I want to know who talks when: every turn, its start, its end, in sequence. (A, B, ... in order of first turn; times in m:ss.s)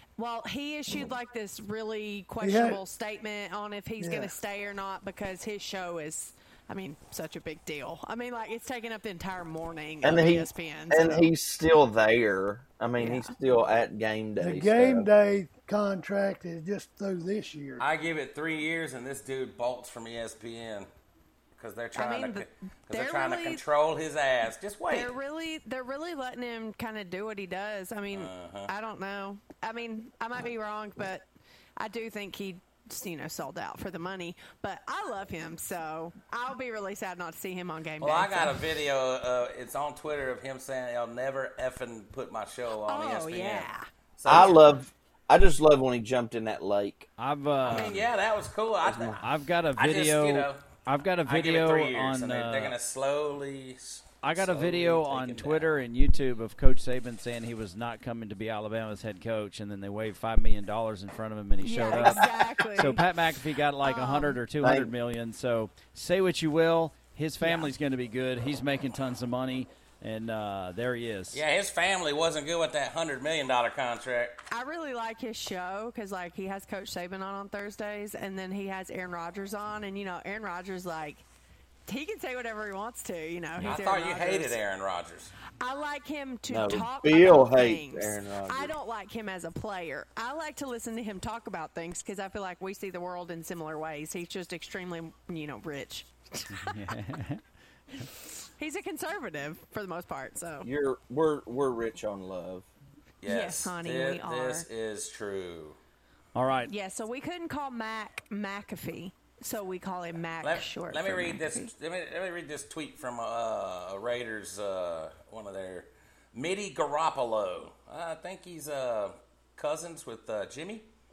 0:00.2-0:11.3 A
0:02.4-0:02.8 B
0:04.0-0:04.3 B
0:10.0-0:15.1 C
0:13.0-0:13.3 A
0:14.4-0:17.8 B
0:17.8-0:20.9 D
0:21.6-0:25.1 D
0:21.9-0:23.6 A
0:24.9-0:31.2 A
0:28.1-0:28.7 D
0:31.8-0:38.6 A
0:38.0-0:44.6 D
0:42.9-0:43.9 A
0:44.2-0:47.1 C
0:47.2-0:48.0 E
0:47.7-0:49.2 D
0:48.8-0:49.2 C
0:49.2-0:52.7 E
0:49.8-0:50.6 D
0:51.2-0:55.8 D
0:54.2-1:11.4 E
1:01.6-1:03.0 A
1:03.8-1:04.4 A
1:04.6-1:04.9 C
1:07.4-1:07.7 A
1:11.3-1:14.4 D
1:14.5-1:21.2 A
1:21.9-1:24.6 A
1:23.6-1:25.3 D
1:25.6-1:36.9 A
1:26.5-1:28.7 C
1:36.5-1:37.4 E
1:38.6-1:40.7 A
1:40.6-1:42.7 C
1:43.2-1:45.8 D
1:43.2-1:44.6 A
1:46.3-1:46.7 E
1:46.6-1:51.7 A
1:50.4-2:00.8 D